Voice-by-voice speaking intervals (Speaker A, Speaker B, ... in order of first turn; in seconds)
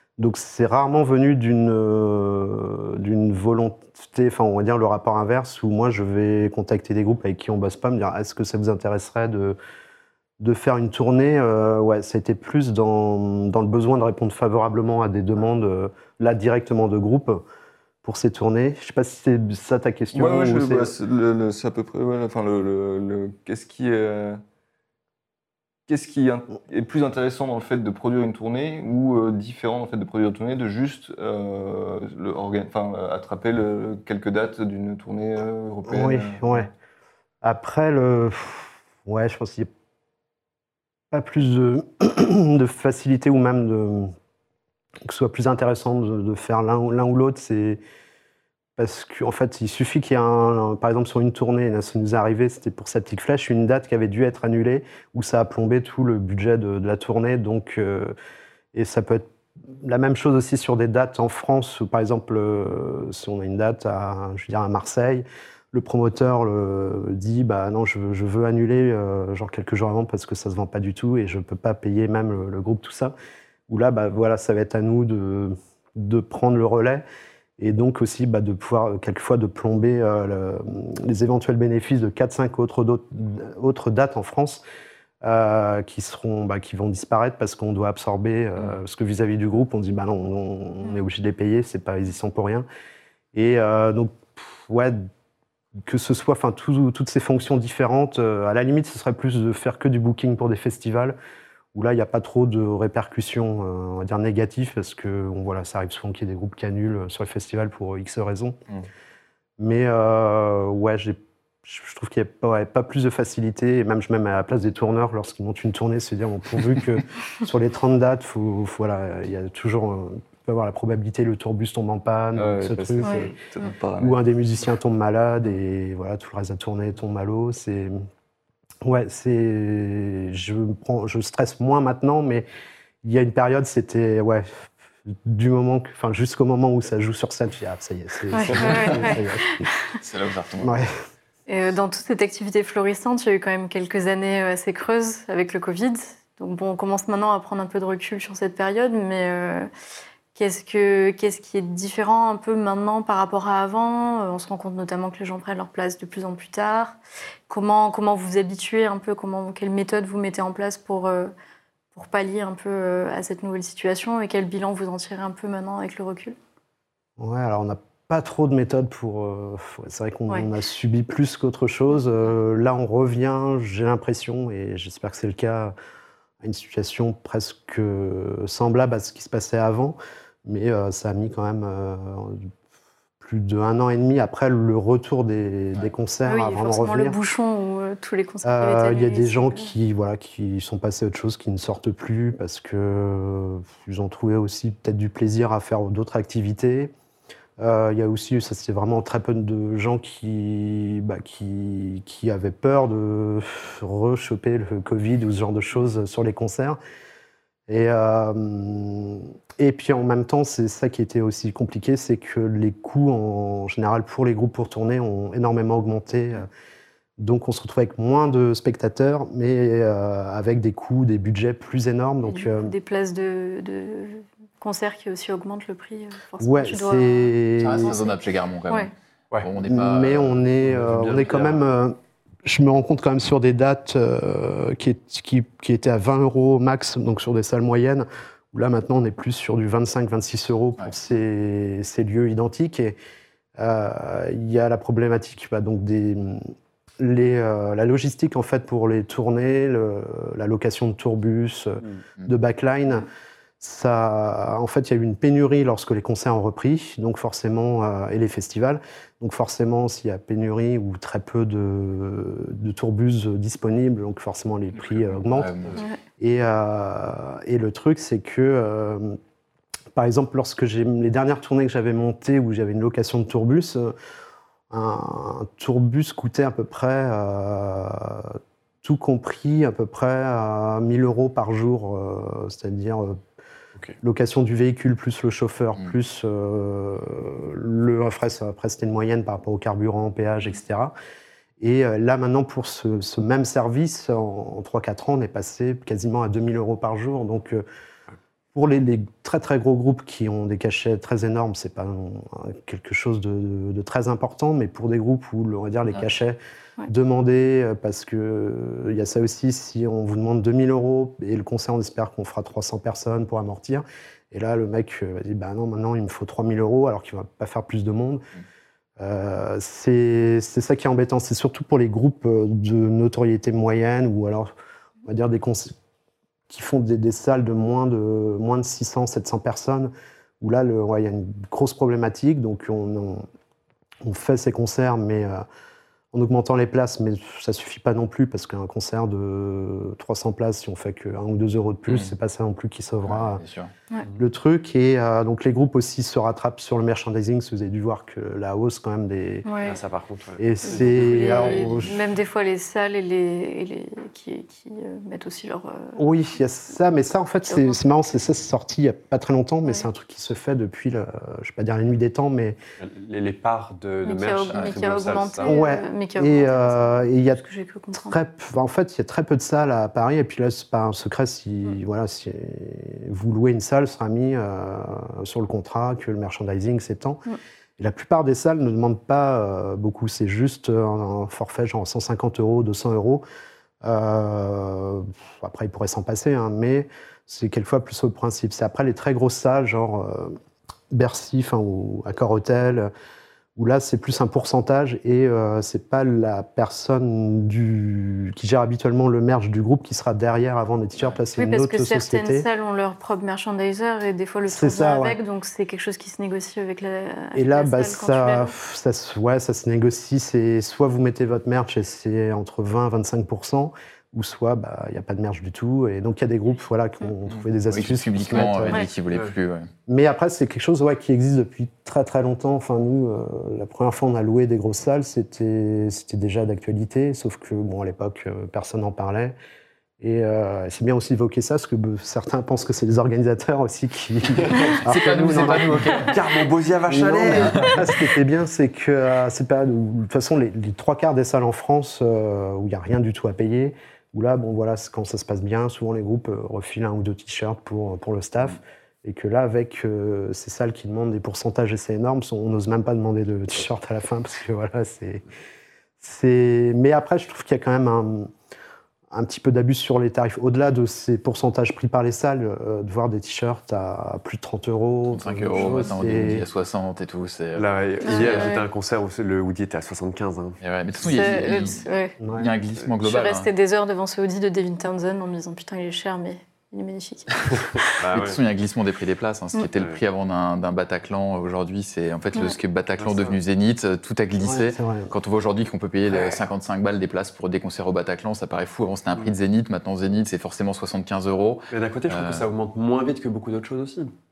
Speaker A: 0.2-9.6, 10.4-17.4, 18.0-20.9, 35.9-36.7, 37.4-39.7, 41.1-44.1, 45.0-47.8, 48.8-58.1, 58.7-73.1, 73.7-77.0, 77.6-84.6, 85.2-92.7, 93.3-95.1, 95.8-101.2, 101.7-108.6, 109.6-123.3, 124.0-128.0, 128.8-132.5, 133.0-139.6, 140.6-140.9, 167.2-175.7, 176.4-182.5, 183.2-187.2, 188.4-196.9, 197.6-206.8, 207.7-216.5, 217.2-222.7, 226.4-227.9, 229.6-243.0, 243.6-253.1, 253.6-265.5, 266.2-269.2, 269.9-273.9, 274.7-283.2, 284.0-290.9, 291.6-297.6, 298.5-318.2, 319.0-324.5, 325.0-325.7, 326.5-333.3, 334.0-335.4, 336.1-343.4, 344.1-349.5, 350.4-352.0, 356.0-362.6, 365.4-367.4, 368.0-377.2, 377.8-383.2, 383.8-390.4, 390.9-392.9, 393.6-402.4, 404.5-405.2, 407.3-418.9, 419.9-429.4, 430.0-436.0, 436.9-455.2, 456.0-458.3, 459.1-466.4, 472.2-472.5, 484.4-485.1
Speaker B: 20.1-24.4, 25.9-36.7, 122.3-124.2
Speaker C: 123.0-123.7, 138.3-139.7, 141.5-149.7, 150.3-161.3, 161.9-166.3, 186.3-189.7, 222.2-228.2, 349.4-349.8, 350.7-356.0, 357.5-357.9, 364.0-368.2, 401.4-408.5, 468.0-468.6, 471.0-472.1, 473.0-477.6
Speaker D: 140.0-140.8, 227.6-230.4, 264.8-265.8, 343.0-343.7, 417.7-419.7, 434.5-436.2, 465.1-468.5, 470.6-473.5, 478.1-492.4
Speaker E: 230.6-231.6, 349.6-351.8, 362.8-365.5, 434.4-434.7, 436.0-437.8, 467.6-470.6, 471.2-471.6, 478.0-478.4, 483.0-483.4, 486.1-486.4, 491.7-494.1